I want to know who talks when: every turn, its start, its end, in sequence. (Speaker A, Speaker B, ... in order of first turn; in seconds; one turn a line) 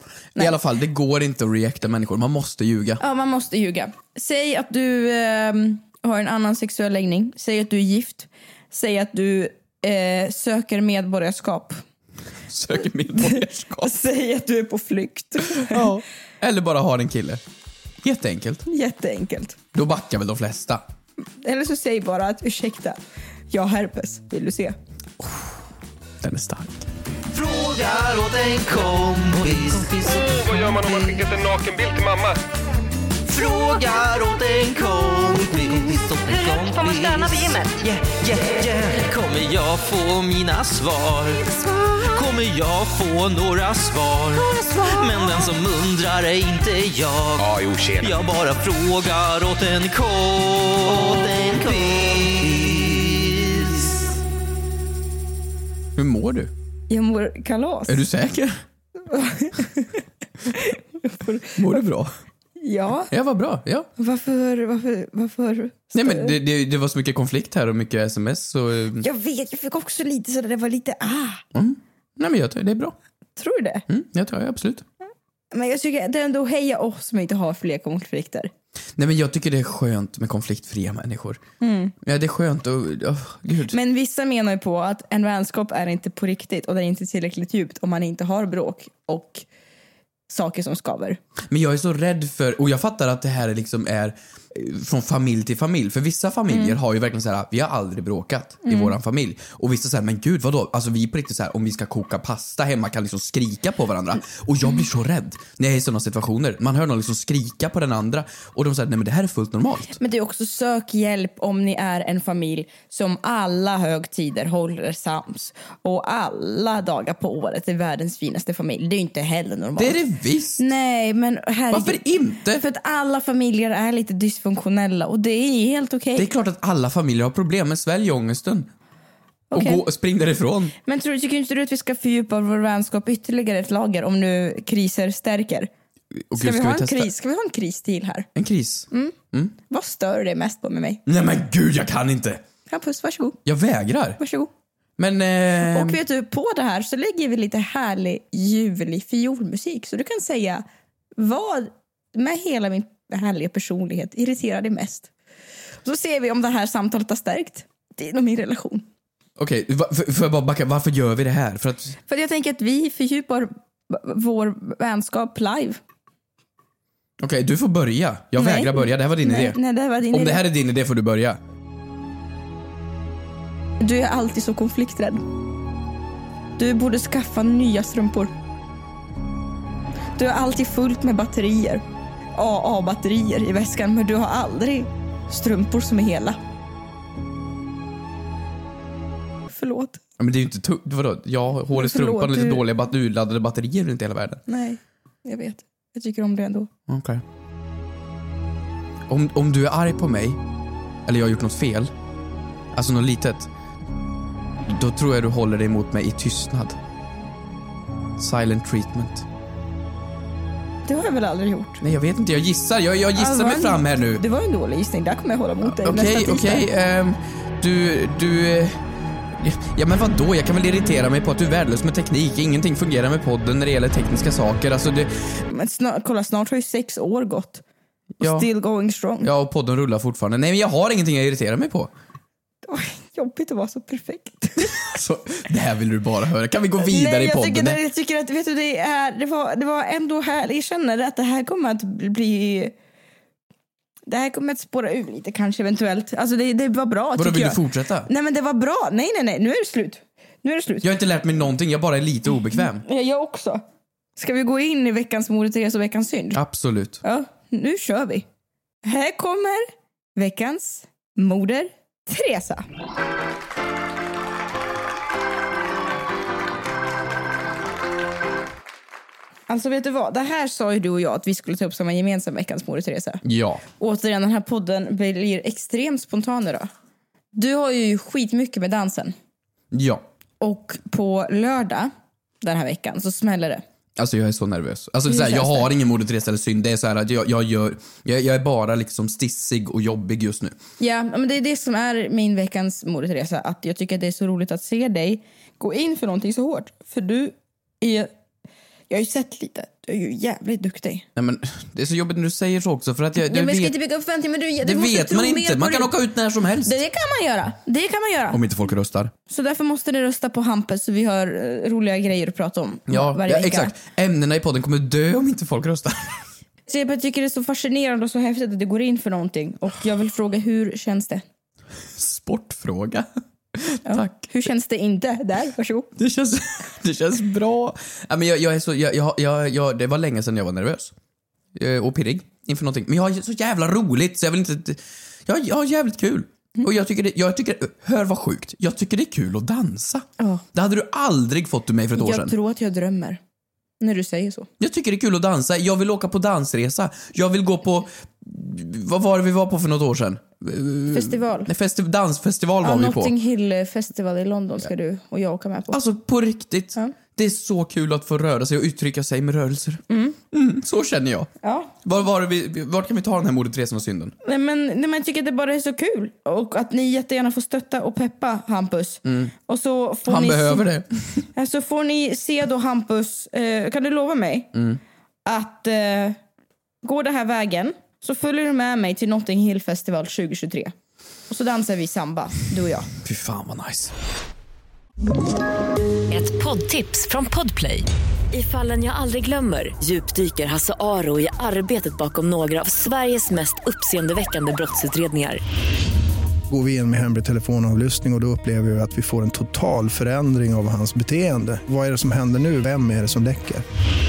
Speaker A: 0.3-3.0
Speaker B: 3.0-11.8
Speaker A: 12.5-13.9
Speaker B: 13.2-16.0
Speaker A: 15.5-17.4
Speaker A: 18.0-18.6
Speaker B: 18.7-19.6
Speaker A: 19.7-20.8
Speaker B: 21.4-23.0
Speaker B: 23.5-24.8
Speaker A: 25.2-25.5
Speaker A: 26.2-26.9
Speaker C: 27.3-31.3
Speaker D: 30.3-32.4
Speaker C: 33.3-54.1
Speaker B: 41.5-41.8
Speaker B: 44.5-45.0
Speaker D: 47.5-48.0
Speaker A: 56.0-56.5
Speaker B: 56.9-58.0
Speaker A: 57.9-58.6
Speaker B: 59.0-61.8
Speaker A: 61.5-62.1
Speaker B: 62.6-63.1
Speaker A: 63.1-63.9
Speaker B: 64.0-66.3
Speaker A: 65.9-69.0
Speaker B: 69.0-71.4
Speaker A: 71.5-72.9
Speaker B: 73.4-73.8
Speaker A: 73.9-74.8
Speaker B: 75.5-78.5
Speaker A: 79.0-81.4
Speaker B: 81.6-81.9
Speaker A: 82.0-83.8
Speaker B: 83.7-89.5
Speaker B: 90.3-91.2
Speaker A: 91.5-110.0
Speaker B: 96.5-96.8
Speaker B: 98.6-98.9
Speaker B: 109.9-120.0
Speaker A: 119.8-120.7
Speaker B: 120.6-126.3
Speaker A: 121.7-122.6
Speaker A: 126.2-128.7
Speaker B: 129.5-129.8
Speaker A: 129.5-130.7
Speaker B: 130.8-135.7
Speaker A: 136.2-137.1
Speaker B: 136.3-138.3
Speaker A: 138.3-139.5
Speaker B: 139.7-141.0
Speaker A: 141.1-142.4
Speaker B: 142.7-143.4
Speaker A: 143.4-144.2
Speaker B: 144.2-144.5
Speaker A: 145.0-146.0
Speaker B: 145.6-150.6
Speaker B: 151.2-155.1
Speaker B: 155.8-158.8
Speaker A: 159.4-162.0
Speaker B: 162.1-165.8
Speaker A: 167.2-169.6
Speaker B: 168.3-170.4
Speaker A: 170.1-171.4
Speaker B: 173.8-175.2
Speaker B: 176.6-178.3
Speaker B: 180.2-181.8
Speaker B: 182.3-186.4
Speaker B: 189.5-190.0
Speaker A: 190.2-194.4
Speaker B: 191.7-192.6
Speaker B: 194.5-196.7
Speaker A: 196.9-197.2
Speaker A: 199.1-200.4
Speaker A: 201.1-201.9
Speaker A: 202.7-203.5
Speaker A: 204.7-206.8
Speaker A: 208.2-209.2
Speaker B: 210.8-211.8
Speaker A: 211.8-214.2
Speaker B: 213.2-216.7
Speaker A: 215.6-218.8
Speaker A: 219.4-225.1
Speaker B: 225.5-227.6
Speaker A: 228.2-228.5
Speaker B: 228.2-229.3
Speaker A: 229.2-231.9
Speaker B: 232.7-234.8
Speaker A: 234.6-237.8
Speaker B: 236.8-242.7
Speaker B: 244.1-250.9
Speaker A: 247.2-248.1
Speaker A: 250.8-252.8
Speaker B: 252.6-253.6
Speaker B: 254.2-256.4
Speaker A: 256.3-257.0
Speaker B: 257.0-258.2
Speaker B: 258.8-259.6
Speaker B: 260.1-262.6
Speaker B: 269.5-273.2
Speaker A: 273.2-273.6
Speaker B: 273.8-276.7
Speaker B: 277.3-279.1
Speaker A: 279.7-280.0
Speaker B: 280.4-281.9
Speaker B: 282.4-283.6
Speaker A: 283.9-290.6
Speaker B: 285.1-285.7
Speaker B: 290.8-298.1
Speaker B: 298.9-301.1
Speaker A: 301.1-303.7
Speaker B: 303.2-305.9
Speaker A: 304.6-306.8
Speaker B: 306.6-308.4
Speaker A: 308.3-309.1
Speaker B: 309.3-313.7
Speaker A: 312.9-316.2
Speaker B: 316.7-321.2
Speaker A: 321.9-324.1
Speaker B: 323.8-325.9
Speaker A: 326.0-330.9
Speaker A: 331.5-342.3
Speaker B: 340.2-340.4
Speaker B: 341.9-343.2
Speaker B: 343.8-344.5
Speaker A: 344.6-353.1
Speaker B: 350.9-351.5
Speaker B: 352.6-355.8
Speaker A: 355.7-361.3
Speaker B: 359.9-360.2
Speaker B: 361.4-361.7
Speaker A: 361.8-364.1
Speaker B: 364.2-370.6
Speaker A: 369.0-369.3
Speaker A: 370.1-371.2
Speaker B: 371.3-374.5
Speaker A: 374.5-374.8
Speaker B: 375.2-376.2
Speaker B: 376.8-380.7
Speaker B: 381.3-382.9
Speaker A: 383.0-383.9
Speaker E: 386.1-395.4
Speaker F: 396.5-403.6